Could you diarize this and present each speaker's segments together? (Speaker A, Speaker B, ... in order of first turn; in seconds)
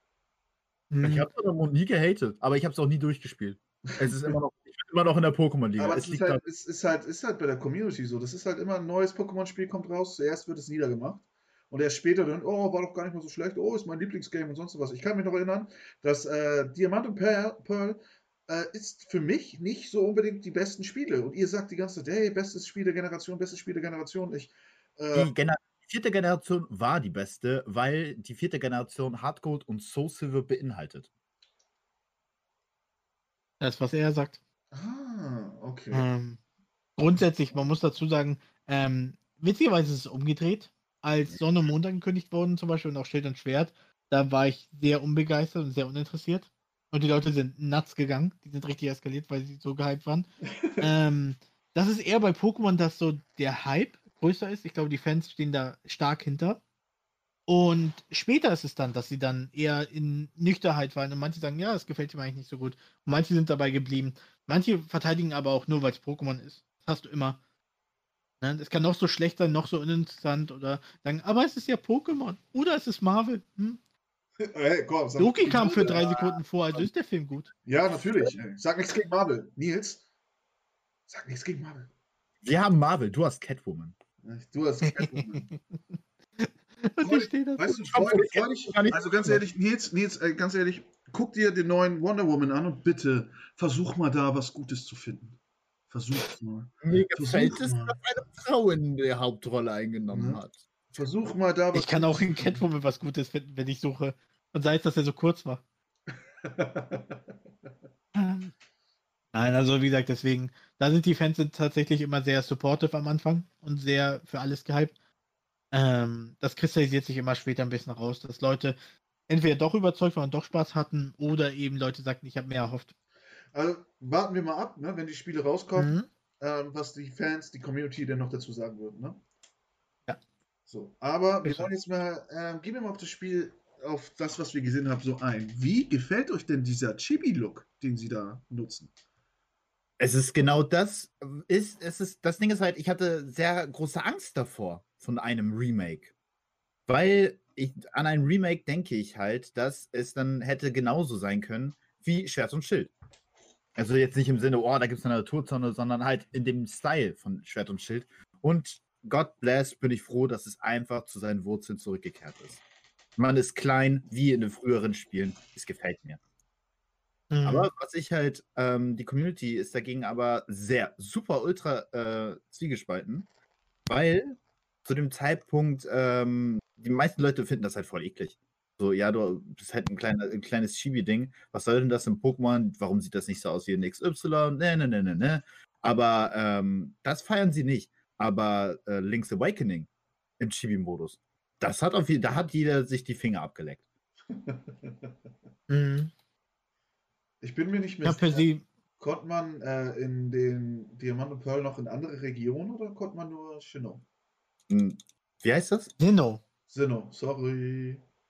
Speaker A: 0.9-1.3, 33.6-34.4, 35.9-36.4, 37.0-50.3, 50.8-56.6, 57.5-67.4, 68.4-73.8, 75.2-77.5, 85.0-85.4, 86.4-87.8, 101.7-105.6, 108.2-108.5, 109.3-114.9, 115.7-118.8, 119.3-122.9, 125.8-126.1, 167.3-167.7, 195.7-196.1, 198.0-198.6, 206.0-206.4
Speaker B: 1.0-6.4, 25.1-31.1, 82.4-84.0, 87.9-89.4, 96.8-100.6, 140.0-146.1, 146.9-152.9, 153.8-162.6, 163.2-166.2, 167.4-173.3, 173.9-193.8, 204.7-205.9
Speaker C: 5.8-25.3, 34.7-36.1, 50.5-50.9, 74.4-76.4, 77.7-80.0, 81.1-81.9, 84.2-85.5, 87.0-95.4, 95.9-98.0, 100.1-102.6, 106.4-107.2, 123.5-129.2, 130.7-138.9, 194.3-195.1, 197.4-198.5, 199.0-204.1, 206.7-208.0